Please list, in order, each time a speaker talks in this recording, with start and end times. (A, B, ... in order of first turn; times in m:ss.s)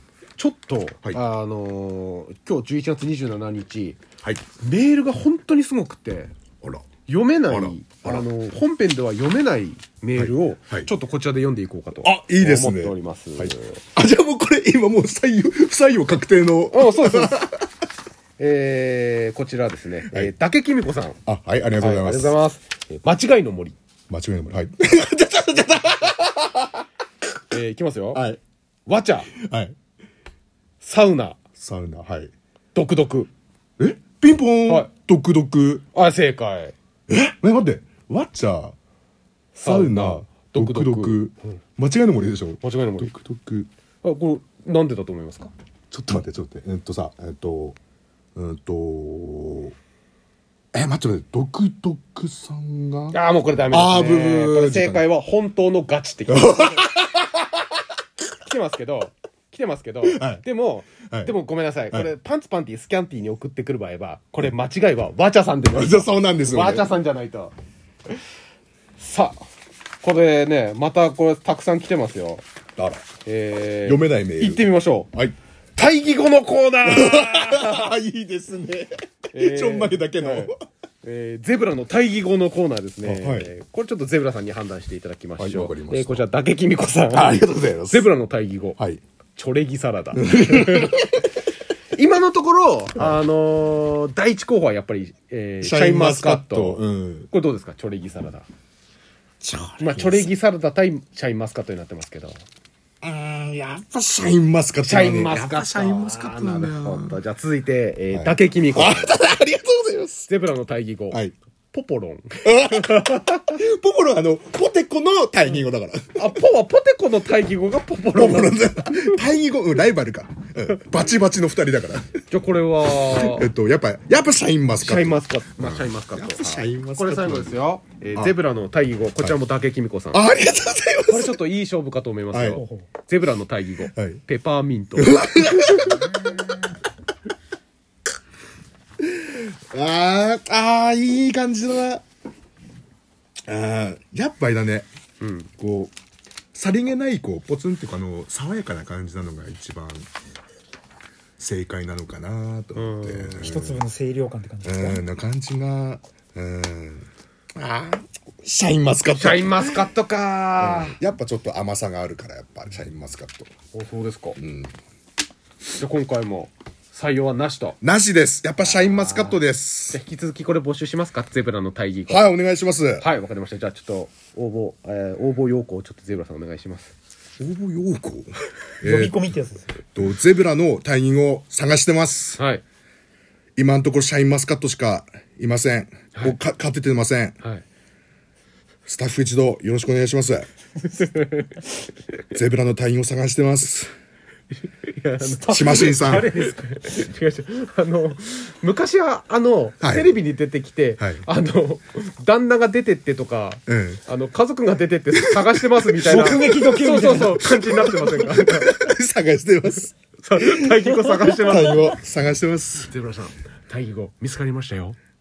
0:00.4-0:04.0 A
0:04.6-0:06.4 A
0:07.1-0:13.8 A
0:07.5-0:08.3 B
0:10.2-0:10.9 B
0:12.0-0:17.6 B
0:16.7-0:17.5 A
0:18.4-0:21.2 A
0:21.3-0:22.4 B
0:21.8-0:23.8 A
0:24.1-0:26.6 B
0:27.5-0:28.2 A
0:28.1-0:28.4 B
0:28.9-0:29.3 A
0:29.3-0:29.8 B
0:30.8-0:31.4 A
0:31.6-0:32.3 B
0:32.7-0:33.3 A
0:33.8-0:35.8 B
0:35.9-0:36.7 A
0:37.1-0:38.8 B
0:39.6-0:41.6 A
0:39.6-0:43.7 B
0:42.6-0:43.1 A
0:44.0-0:45.5 A
0:45.9-0:47.8 B
0:48.4-0:49.8 B
0:50.7-0:53.2 B
0:53.1-0:56.9 A
0:53.7-0:55.1 B
0:56.3-0:57.3 B
0:58.4-1:07.6 A
1:00.0-1:00.4 B
1:05.7-1:06.9 B
1:09.0-1:09.4 A
1:10.0-1:12.4 A
1:12.8-1:13.1 B
1:13.2-1:15.1 A
1:13.8-1:15.4 B
1:15.8-1:17.9 A
1:16.8-1:20.6 B
1:19.3-1:20.5 A
1:21.0-1:28.8 A
1:23.0-1:23.5 B
1:25.4-1:26.3 B
1:27.1-1:28.1 B
1:29.4-1:31.0 A
1:30.1-1:31.3 B
1:32.0-1:38.4 A
1:35.6-1:37.3 B
1:39.4-1:40.3 B
1:39.8-1:42.4 A
1:43.0-1:47.2 B
1:44.8-1:49.1 A
1:48.1-1:50.3 B
1:50.3-1:51.2 A
1:51.7-1:53.4 A
1:52.4-1:56.2 B
1:56.2-1:59.1 A
1:58.1-2:02.2 B
2:02.3-2:03.5 A
2:03.0-2:07.6 B
2:04.8-2:10.2 A
2:10.1-2:11.4 B
2:11.1-2:16.3 A
2:12.3-2:12.6 B
2:12.6-2:12.8 C
2:13.9-2:14.2 B
2:15.0-2:16.2 B
2:19.0-2:22.0 B
2:23.5-2:24.9 B
2:25.2-2:25.5 A
2:25.6-2:25.9 B
2:26.5-2:30.1 B
2:31.4-2:33.9 B
2:32.8-2:33.5 A
2:33.4-2:35.0 C
2:34.6-2:39.9 B
2:39.2-2:41.0 A
2:40.6-2:43.5 B
2:43.7-2:44.4 A
2:44.4-2:44.7 B
2:45.8-2:47.8 A
2:47.8-2:50.0 B
2:48.6-2:49.4 A
2:49.9-2:52.2 A
2:52.1-2:53.1 B
2:53.0-2:56.9 A
2:57.4-3:02.4 B
2:58.8-2:59.7 C
3:02.4-3:02.6 A
3:03.6-3:07.4 B
3:08.9-3:10.5 B
3:10.8-3:11.7 A
3:12.3-3:13.9 B
3:14.6-3:28.7 A
3:15.3-3:16.5 B
3:19.8-3:20.2 B
3:21.0-3:21.2 B
3:23.7-3:24.0 B
3:25.2-3:32.9 B
3:26.0-3:27.4 C
3:30.2-3:31.9 A
3:32.8-3:35.0 A